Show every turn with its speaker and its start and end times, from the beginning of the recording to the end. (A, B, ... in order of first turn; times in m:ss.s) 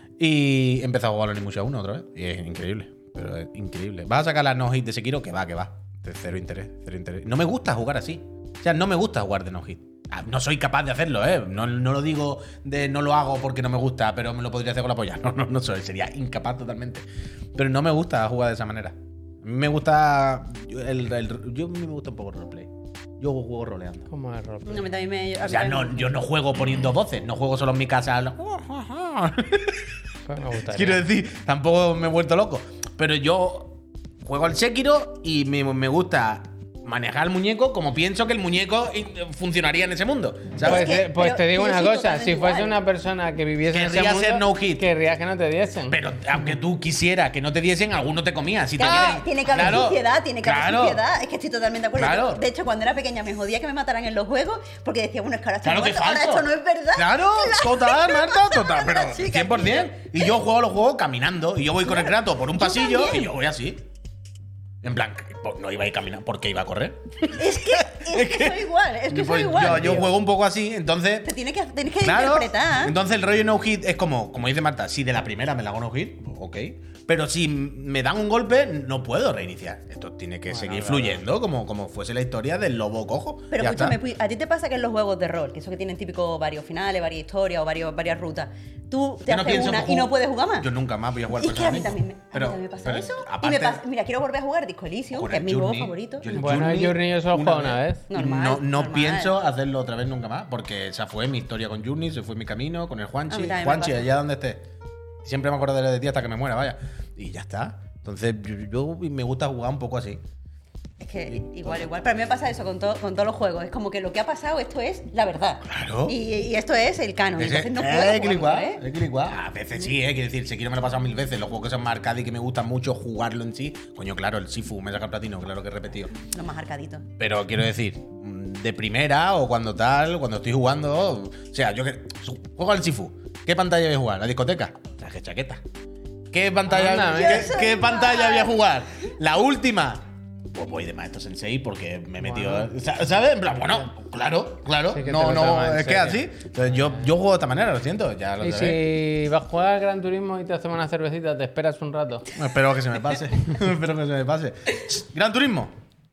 0:00.2-0:24.1 A
0:24.1-0:24.9 B
0:24.7-0:26.2 C
0:25.4-0:30.0 A
0:30.3-0:31.1 B
0:30.6-0:41.0 A
0:40.6-0:46.0 B
0:40.6-0:42.7 C
0:43.7-0:44.9 A
0:45.9-0:51.0 A
0:48.8-1:00.3 C
0:52.0-0:52.4 A
0:55.6-1:03.8 A
1:01.8-1:03.3 C
1:04.8-1:11.3 A
1:07.3-1:10.1 C
1:11.2-1:13.0 C
1:12.0-1:24.0 A
1:20.5-1:21.2 B
1:23.5-1:30.7 C
1:29.3-1:33.8 A
1:31.4-1:36.3 C
1:35.1-1:44.6 A
1:36.3-1:38.1 B
1:38.1-1:39.3 C
1:43.3-1:44.1 C
1:45.2-1:50.2 A
1:51.0-1:58.8 C
1:51.3-1:51.8 A
1:55.6-1:56.2 A
1:57.4-2:06.1 A
2:06.3-2:07.1 C
2:07.2-2:15.6 A
2:16.3-2:28.8 A
2:16.7-2:17.6 B
2:17.0-2:18.6 C
2:22.2-2:22.7 B
2:24.9-2:26.3 B
2:28.4-2:32.3 B
2:32.3-2:35.7 A